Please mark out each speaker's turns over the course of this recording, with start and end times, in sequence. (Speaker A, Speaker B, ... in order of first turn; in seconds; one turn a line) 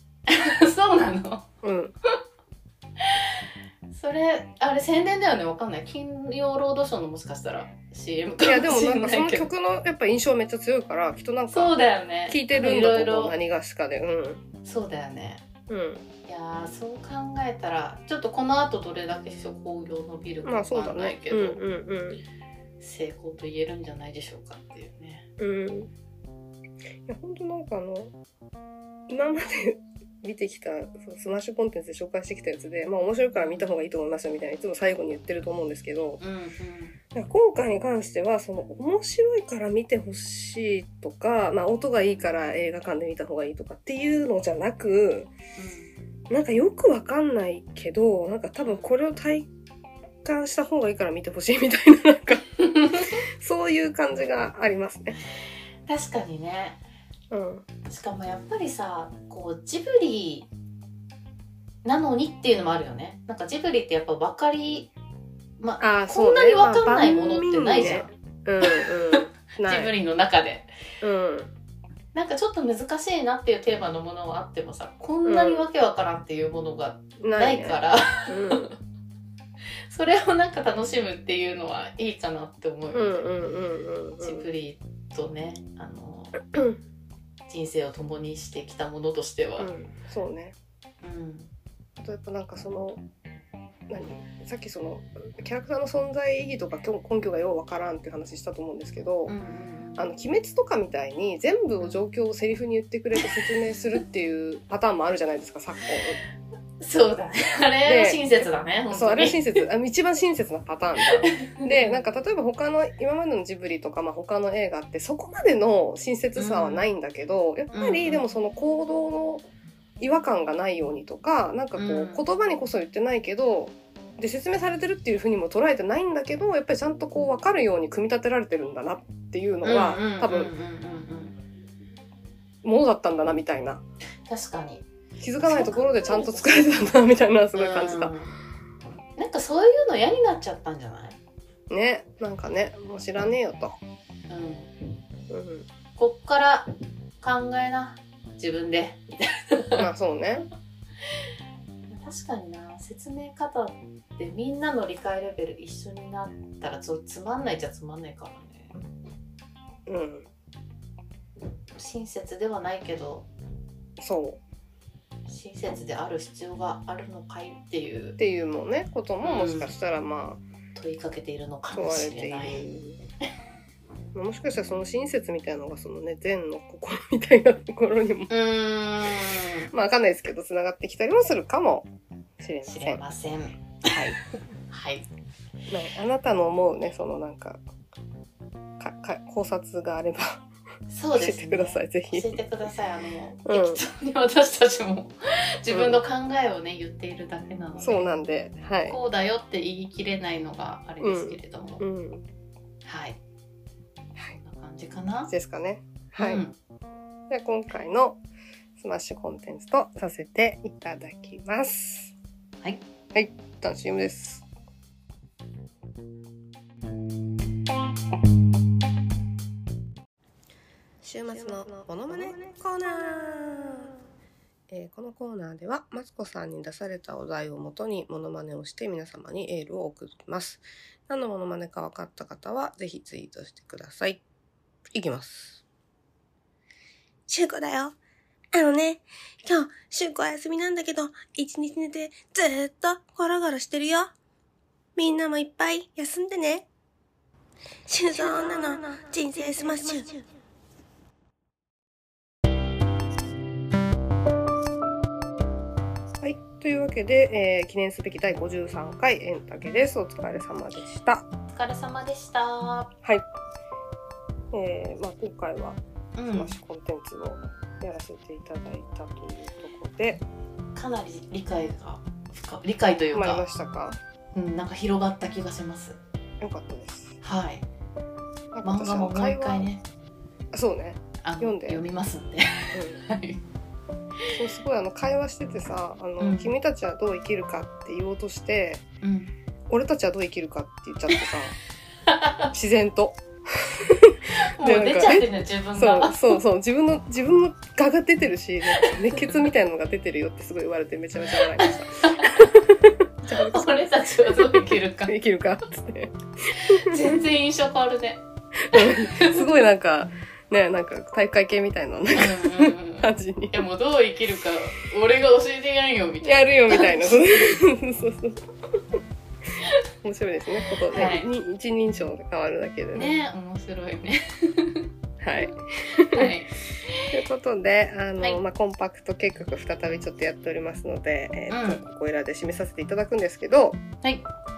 Speaker A: 0.3-1.4
Speaker B: 1.6-1.9
Speaker A: 3.9-9.5
Speaker B: 8.4-11.7
Speaker A: 11.5-13.3
Speaker B: 12.3-14.4
Speaker A: 14.6-15.5
Speaker B: 15.7-16.0
Speaker A: 16.2-21.6
Speaker B: 20.4-22.2
Speaker A: 22.8-25.3
Speaker B: 25.4-25.9
Speaker B: 27.1-28.1
Speaker B: 29.1-36.2
Speaker A: 33.4-33.7
Speaker A: 36.2-37.0
Speaker B: 37.1-45.3
Speaker A: 45.5-45.9
Speaker B: 46.3-49.5
Speaker A: 48.6-49.0
Speaker B: 50.2-52.5
Speaker A: 52.6-53.1
Speaker B: 53.4-55.2
Speaker A: 55.9-56.8
Speaker B: 57.3-57.6
Speaker A: 57.9-60.5
Speaker A: 61.8-64.9
Speaker A: 65.6-68.1
Speaker B: 65.8-69.9
Speaker A: 68.6-70.7
Speaker B: 71.0-71.5
Speaker A: 72.1-78.7
Speaker B: 75.2-75.7
Speaker B: 77.2-78.7
Speaker A: 79.9-83.5
Speaker B: 82.9-84.5
Speaker A: 84.2-86.4
Speaker B: 86.5-86.8
Speaker A: 87.5-89.7
Speaker B: 89.6-90.5
Speaker A: 91.0-91.5
Speaker B: 92.0-93.0
Speaker B: 93.9-99.3
Speaker A: 99.3-100.1
Speaker B: 100.0-106.2
Speaker A: 106.8-109.5
Speaker B: 107.8-119.5
Speaker A: 111.2-112.0
Speaker A: 116.4-116.9
Speaker A: 117.7-118.2
Speaker B: 120.0-130.5
Speaker A: 121.8-122.2
Speaker A: 129.6-131.3
Speaker B: 132.6-133.8
Speaker A: 134.3-134.9
Speaker B: 135.2-138.1
Speaker A: 135.4-136.6
Speaker A: 137.6-138.3
Speaker A: 139.2-141.2
Speaker B: 141.7-143.8
Speaker A: 144.3-144.7
Speaker B: 145.3-145.7
Speaker A: 146.0-146.7
Speaker A: 147.2-149.8
Speaker B: 149.8-150.5
Speaker A: 151.9-158.8
Speaker B: 159.9-160.3
Speaker A: 161.8-163.3
Speaker B: 164.0-164.4
Speaker A: 165.3-168.2
Speaker B: 168.2-170.4
Speaker A: 169.2-169.7
Speaker A: 170.7-172.7
Speaker B: 171.7-173.0
Speaker B: 174.1-178.3
Speaker A: 178.3-179.7
Speaker B: 179.7-183.0
Speaker A: 182.6-184.2
Speaker B: 183.9-184.2
Speaker A: 184.7-185.1
Speaker B: 185.7-187.6
Speaker B: 188.8-190.4
Speaker A: 190.9-198.1
Speaker B: 191.2-192.3
Speaker B: 193.4-193.8
Speaker B: 195.7-196.0
Speaker B: 197.8-199.0
Speaker A: 198.8-201.8
Speaker B: 201.0-202.2
Speaker A: 202.8-203.2
Speaker A: 204.3-205.3
Speaker B: 205.3-206.4
Speaker A: 206.2-206.6
Speaker B: 207.3-208.2
Speaker B: 208.8-212.1
Speaker B: 213.1-214.4
Speaker B: 221.0-223.8
Speaker C: 221.2-222.4
Speaker B: 224.7-234.2
Speaker B: 234.9-235.6
Speaker C: 237.3-238.0
Speaker C: 238.5-244.1
Speaker C: 244.9-246.7
Speaker C: 247.9-250.2
Speaker B: 256.2-261.2
Speaker A: 261.5-262.9
Speaker B: 264.5-265.8
Speaker A: 266.2-266.6
Speaker B: 266.3-270.2
Speaker A: 270.7-273.4
Speaker B: 273.1-274.0
Speaker A: 274.3-276.0
Speaker B: 276.4-277.2
Speaker A: 277.2-277.6
Speaker B: 278.5-279.7
Speaker A: 278.6-279.8
Speaker B: 280.5-281.8
Speaker A: 281.2-283.4
Speaker B: 282.7-283.0
Speaker B: 284.3-288.8
Speaker A: 286.2-286.5
Speaker A: 289.0-289.3
Speaker B: 289.7-291.6
Speaker A: 292.1-292.5
Speaker B: 292.5-304.6
Speaker A: 294.4-296.4
Speaker A: 298.8-299.3
Speaker A: 301.6-302.5
Speaker A: 303.3-305.2
Speaker B: 305.1-307.2
Speaker A: 306.6-309.4
Speaker B: 308.7-313.6
Speaker A: 312.1-317.4
Speaker B: 316.2-318.4
Speaker B: 320.0-323.1
Speaker A: 320.9-321.3
Speaker A: 322.9-324.9
Speaker B: 325.2-326.3
Speaker A: 326.0-327.0
Speaker B: 327.1-333.8
Speaker A: 331.5-331.8